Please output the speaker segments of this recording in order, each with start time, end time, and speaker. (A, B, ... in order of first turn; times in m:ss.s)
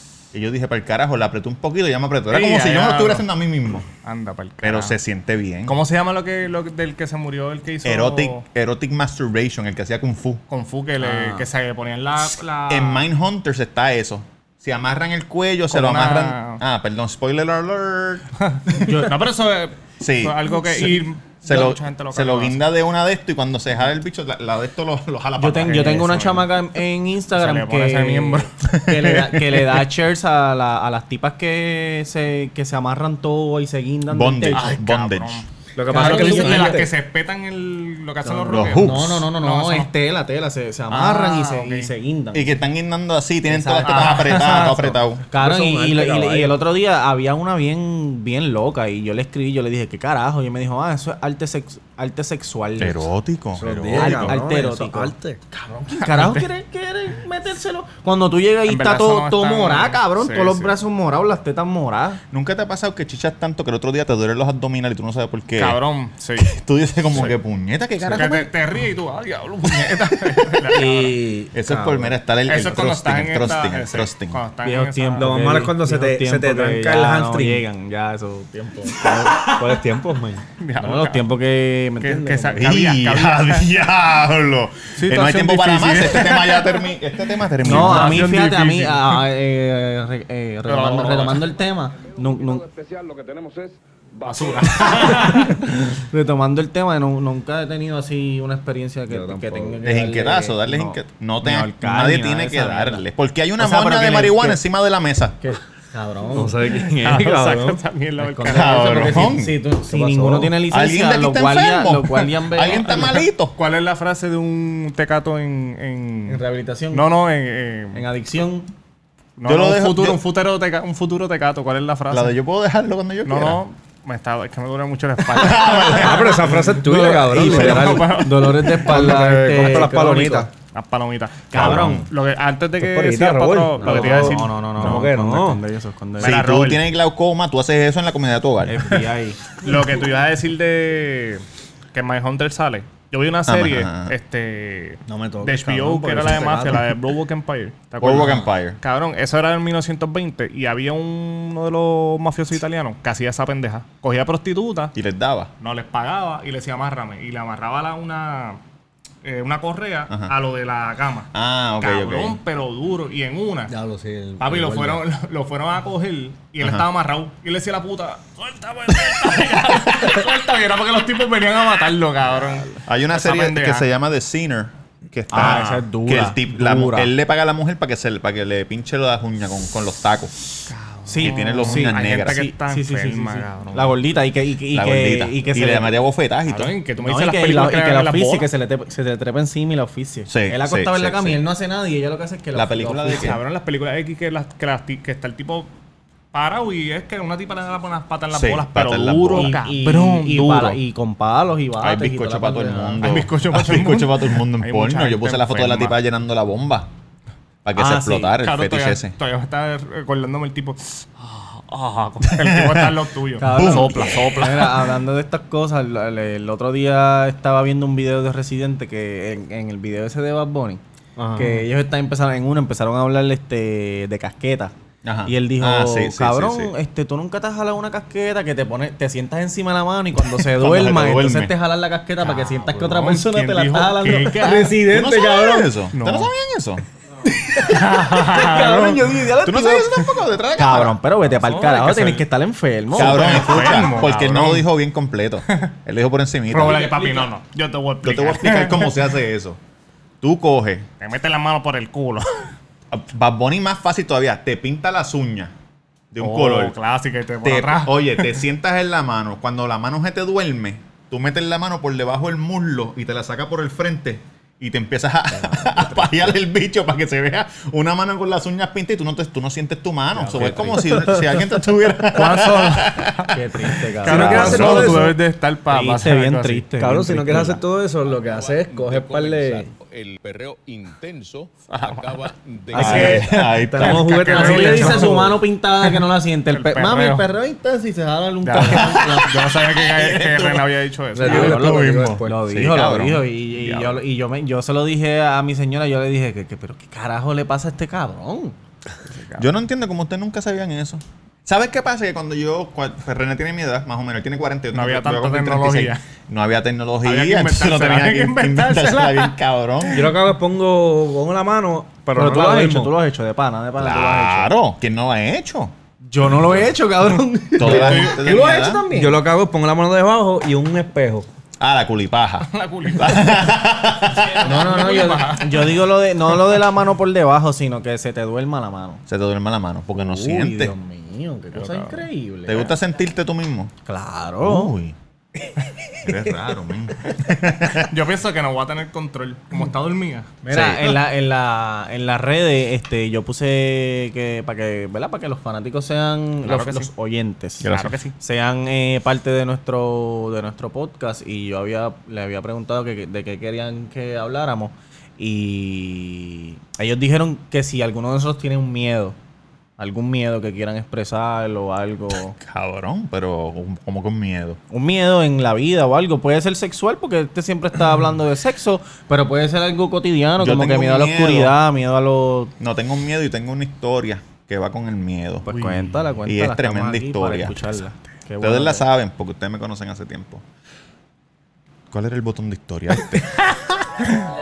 0:00.3-0:03.9 A
0:02.3-0:03.2 B
0:04.0-0:05.0 B
0:04.6-0:05.8 A
0:05.6-0:08.4 B
0:07.8-0:10.4 A
0:10.5-0:13.0 B
0:11.0-0:11.4 C
0:12.6-0:18.9 A
0:15.7-0:16.6 B
0:18.4-0:22.6 B
0:20.0-0:26.0 A
0:25.4-0:34.7 C
0:25.6-0:26.6 B
0:27.3-0:28.5 B
0:28.7-0:29.3 A
0:34.1-0:35.4 A
0:34.5-0:39.9 B
0:35.8-0:36.9 D
0:35.9-0:36.7 C
0:38.3-0:38.6 D
0:38.5-0:39.2 A
0:38.7-0:42.5 C
0:40.9-0:41.9 B
0:42.3-0:45.2 A
0:43.5-0:44.3 C
0:43.8-0:44.9 B
0:45.3-0:53.1 C
0:45.3-0:46.6 D
0:52.8-0:54.4 A
0:53.6-0:55.4 D
0:53.9-1:02.2 C
0:56.0-0:56.4 B
0:58.7-1:00.8 B
1:02.3-1:05.8 A
1:05.6-1:06.5 B
1:06.4-1:08.5 A
1:08.0-1:11.2 B
1:09.8-1:10.7 A
1:10.7-1:12.1 D
1:11.5-1:14.4 A
1:12.5-1:15.3 B
1:14.6-1:19.5 C
1:15.2-1:17.6 D
1:19.0-1:20.4 D
1:20.6-1:21.2 B
1:20.8-1:22.7 C
1:22.0-1:23.7 B
1:22.5-1:28.3 A
1:25.0-1:26.9 B
1:27.6-1:29.2 B
1:27.6-1:32.6 C
1:30.7-1:31.4 B
1:32.0-1:35.6 E
1:34.2-1:35.5 B
1:34.8-1:43.0 C
1:39.1-1:39.8 D
1:39.8-1:45.4 A
1:43.6-1:44.6 C
1:45.4-1:46.6 C
1:46.3-1:47.8 D
1:46.8-1:49.3 B
1:48.2-1:53.2 C
1:48.5-1:49.5 A
1:48.5-1:50.6 D
1:50.7-1:53.6 A
1:53.5-1:58.0 B
1:56.3-1:57.0 C
1:57.9-1:58.7 C
1:59.4-2:02.3 B
1:59.4-2:00.2 A
2:02.1-2:03.6 A
2:03.2-2:09.9 B
2:05.3-2:06.4 A
2:05.5-2:10.5 D
2:07.3-2:10.5 C
2:07.4-2:08.1 A
2:10.7-2:15.0 B
2:11.5-2:12.0 C
2:11.5-2:12.1 A
2:12.8-2:15.6 D
2:13.8-2:16.4 C
2:16.2-2:16.8 B
2:16.2-2:18.9 A
2:18.7-2:19.4 C
2:19.6-2:34.9 B
2:23.5-2:24.1 A
2:25.1-2:26.9 D
2:26.5-2:26.8 A
2:28.0-2:28.8 A
2:34.9-2:35.5 A
2:35.6-2:38.6 B
2:39.2-2:43.7 B
2:41.3-2:42.4 A
2:43.7-2:45.0 D
2:44.4-2:53.8 B
2:46.6-2:46.8 A
2:49.1-2:49.6 A
2:52.8-3:00.3 A
2:55.3-2:57.1 C
2:55.3-2:55.8 B
3:00.7-3:03.9 B
3:01.1-3:05.9 C
3:01.2-3:02.4 A
3:04.7-3:06.8 A
3:06.5-3:08.5 B
3:07.0-3:13.3 C
3:10.3-3:11.4 A
3:12.5-3:13.4 A
3:13.1-3:15.7 B
3:16.3-3:20.8 B
3:18.3-3:19.6 A
3:19.3-3:23.1 C
3:21.8-3:26.9 A
3:23.0-3:26.0 B
3:27.6-3:29.1 A
3:27.7-3:28.4 C
3:28.4-3:34.7 B
3:32.2-3:34.7 A
3:33.4-3:40.8 C
3:41.2-3:41.6 D
3:41.3-3:44.7 C
3:45.0-3:46.7 A
3:45.3-3:54.4 C
3:50.2-3:51.5 A
3:52.2-3:54.8 B
3:54.4-3:55.8 D
3:54.4-3:56.8 A
3:55.9-3:56.3 B
3:57.6-3:59.7 D
3:57.6-3:59.2 B
3:59.4-4:01.0 A
4:00.6-4:03.4 C
4:01.3-4:02.2 B
4:02.9-4:04.6 B
4:03.0-4:07.1 A
4:06.5-4:09.0 B
4:08.0-4:09.6 A
4:10.2-4:10.8 A
4:11.0-4:12.5 B
4:12.9-4:15.5 A
4:16.1-4:16.7 A
4:16.2-4:18.3 B
4:17.4-4:33.4 A
4:30.2-4:30.9 C
4:30.3-4:31.4 D
4:32.1-4:33.4 B
4:33.3-4:35.0 C
4:34.0-4:35.1 D
4:34.0-4:36.6 B
4:34.0-4:35.0 A
4:35.7-4:37.6 C
4:36.8-4:39.7 D
4:38.0-4:43.2 F
4:41.7-4:42.2 B
4:42.7-4:44.1 A
4:42.8-4:43.2 C
4:42.8-4:47.3 B
4:42.9-4:45.3 D
4:44.2-4:49.3 C
4:48.4-4:52.2 B
4:48.6-4:50.7 A
4:51.2-4:52.8 D
4:51.2-4:58.6 C
4:52.5-4:53.3 A
4:53.5-4:54.0 B
4:59.1-4:59.5 B
4:59.4-5:10.1 A
5:04.7-5:06.0 B
5:07.0-5:09.3 B
5:09.9-5:12.9 D
5:12.1-5:14.5 C
5:13.8-5:15.7 A
5:16.0-5:19.2 C
5:17.6-5:18.8 A
5:17.6-5:18.1 D
5:17.7-5:18.0 B
5:18.9-5:21.3 D
5:21.6-5:24.7 A
5:22.5-5:23.5 B
5:24.0-5:25.8 B
5:24.4-5:29.0 C
5:29.1-5:30.7 A
5:29.9-5:32.7 C
5:31.5-5:32.1 B
5:32.4-5:33.7 A
5:33.8-5:34.7 C
5:34.4-5:35.0 A
5:36.0-5:37.9 A
5:37.8-5:40.3 B
5:40.4-5:47.7 C
5:40.5-5:41.0 A
5:46.4-5:46.9 B
5:47.6-5:48.0 A
5:47.7-5:48.1 B
5:48.2-5:59.2 C
5:59.8-6:02.4 C
6:02.4-6:04.6 A
6:04.7-6:12.5 C
6:10.4-6:11.6 A
6:12.6-6:15.6 A
6:15.4-6:18.8 C
6:15.5-6:16.1 B
6:16.2-6:17.8 A
6:18.4-6:20.4 A
6:21.9-6:24.0 A